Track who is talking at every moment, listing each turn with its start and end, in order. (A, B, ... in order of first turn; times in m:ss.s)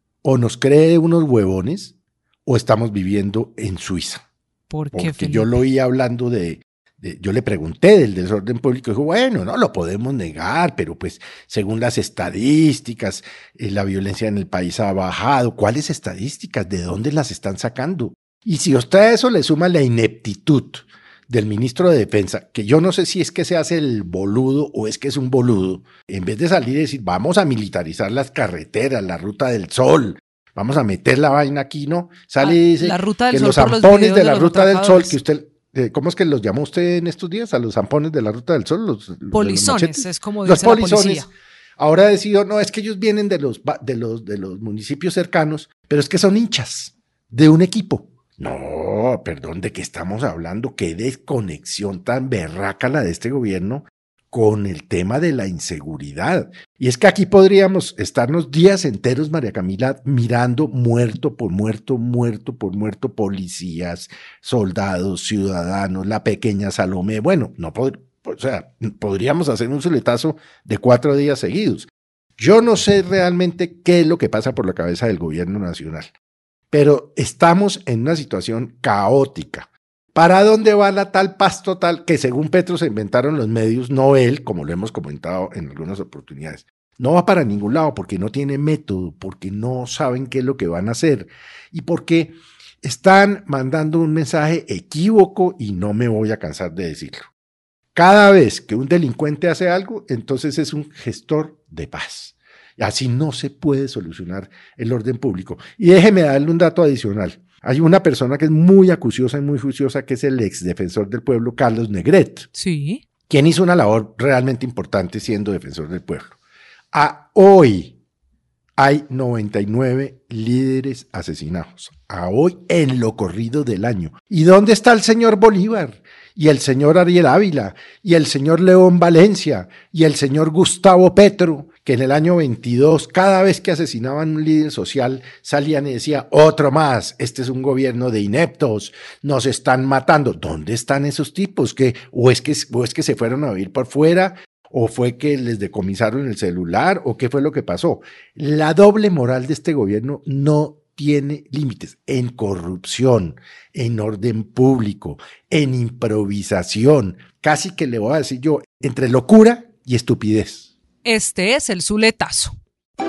0:00.2-0:04.2 A
0:04.7-0:05.6 B
0:04.9-0:41.3 A
0:32.4-0:35.2 B
0:39.3-0:41.3 B
0:41.8-1:16.1 A
1:16.7-1:37.3 A
1:37.9-1:52.5 A
1:52.5-1:53.0 B
1:53.3-1:56.4 A
1:56.9-1:58.0 A
1:58.8-2:40.7 A
2:41.0-2:42.5 B